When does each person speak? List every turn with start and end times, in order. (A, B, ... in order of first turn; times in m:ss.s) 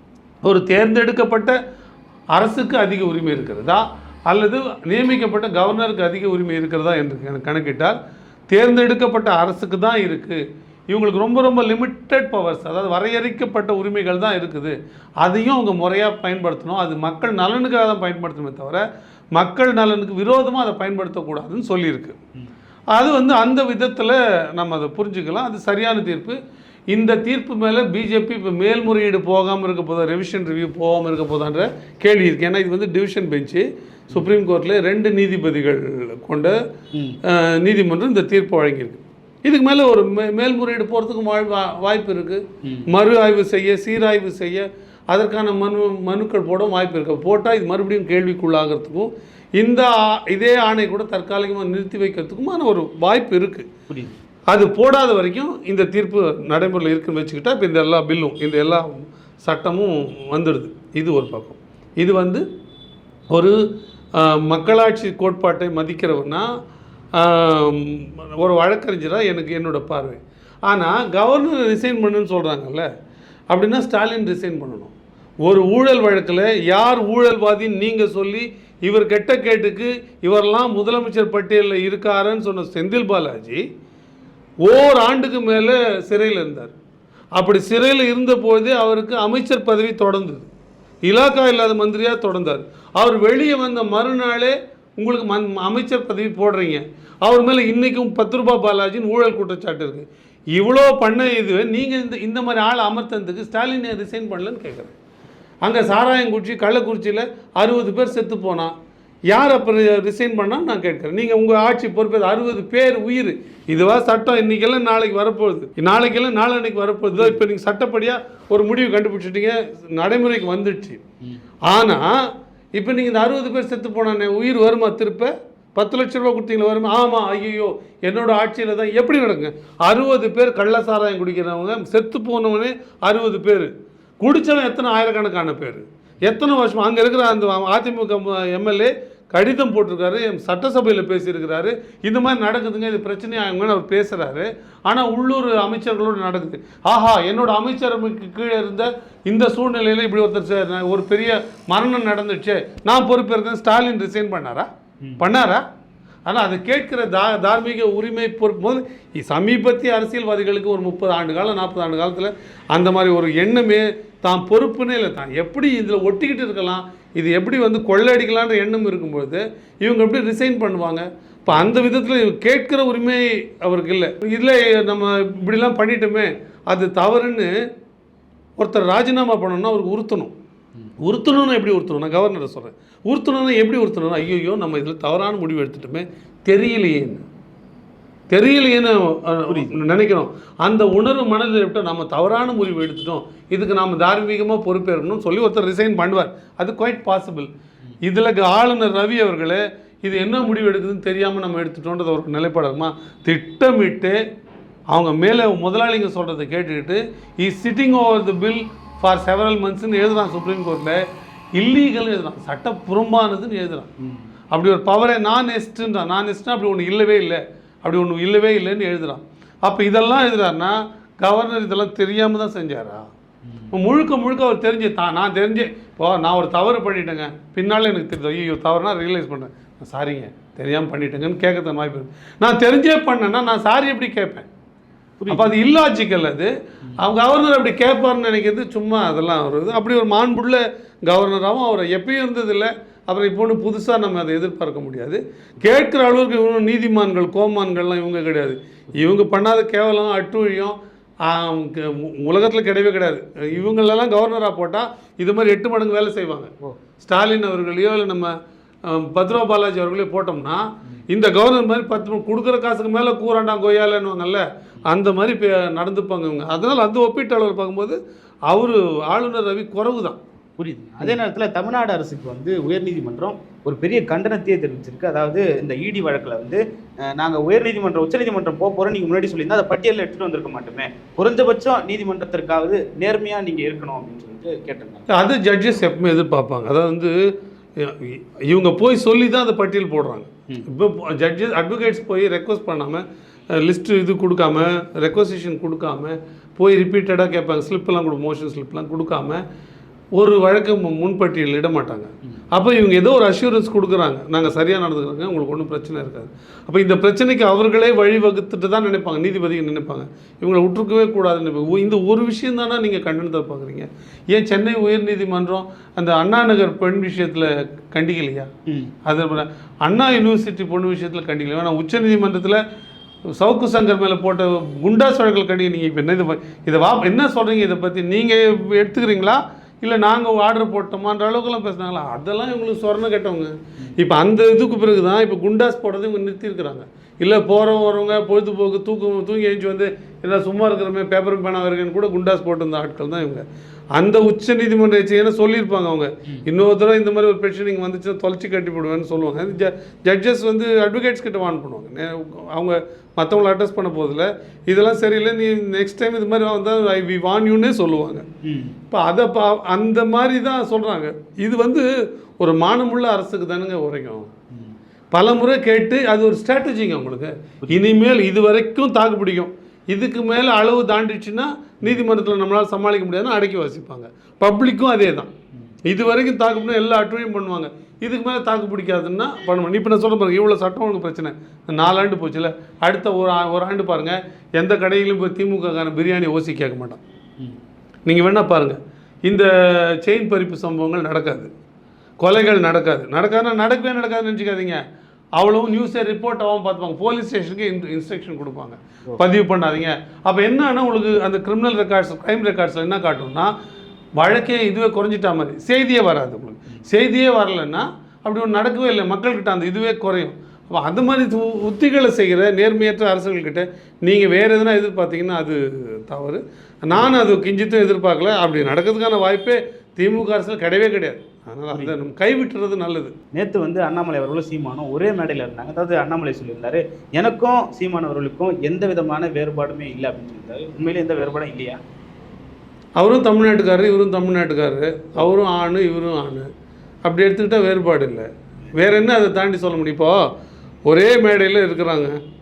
0:00.4-0:01.6 A
0:02.3-0:08.0 A
0:08.5-0:18.8 A
0:19.4-0:22.2 A
0:22.9-0:26.4 A
0:26.9-0:36.6 A
0:36.9-0:37.2 B
0:37.2-0:53.7 A
0:53.9-0:54.1 B
0:54.5-1:02.4 A
1:03.3-1:03.6 A
1:04.2-1:06.5 A
1:07.2-1:12.9 A
1:13.5-1:14.9 A
1:15.4-1:23.6 A
1:24.6-1:26.7 A
1:27.4-1:30.5 A
1:31.1-1:44.9 A
1:45.6-1:48.7 A
1:49.3-2:01.0 A
1:57.1-1:57.4 B
2:01.7-2:34.7 A
2:35.2-2:35.6 A
2:36.3-2:57.5 A
2:58.6-3:00.3 A
3:01.0-3:07.2 A
3:08.3-3:17.5 A
3:09.5-3:09.8 B
3:18.0-3:24.2 A
3:24.9-3:31.0 A
3:31.6-3:33.9 A
3:34.0-3:34.3 B
3:34.5-3:43.1 A
3:43.4-3:43.7 B
3:43.7-3:54.5 A
3:55.2-3:55.5 B
3:55.3-4:18.3 A
4:18.8-4:28.0 A
4:28.5-4:30.2 A
4:30.6-4:45.1 B
4:45.1-4:47.2 A
4:47.8-4:53.0 A
4:53.5-4:59.4 A
5:00.2-5:18.5 A
5:18.7-5:18.9 B
5:19.0-5:22.6 A
5:23.4-5:43.4 A
5:43.9-5:58.2 A
5:58.4-5:58.7 B
5:58.9-6:01.9 A
6:02.4-6:04.3 A
6:05.1-6:15.3 A
6:15.8-6:27.0 A
6:28.1-6:31.5 A
6:32.2-6:34.8 A
6:35.4-6:43.5 A
6:44.2-7:03.1 A
7:03.3-7:11.8 B
7:13.0-7:16.5 A
7:17.0-7:20.3 A
7:20.9-7:22.2 A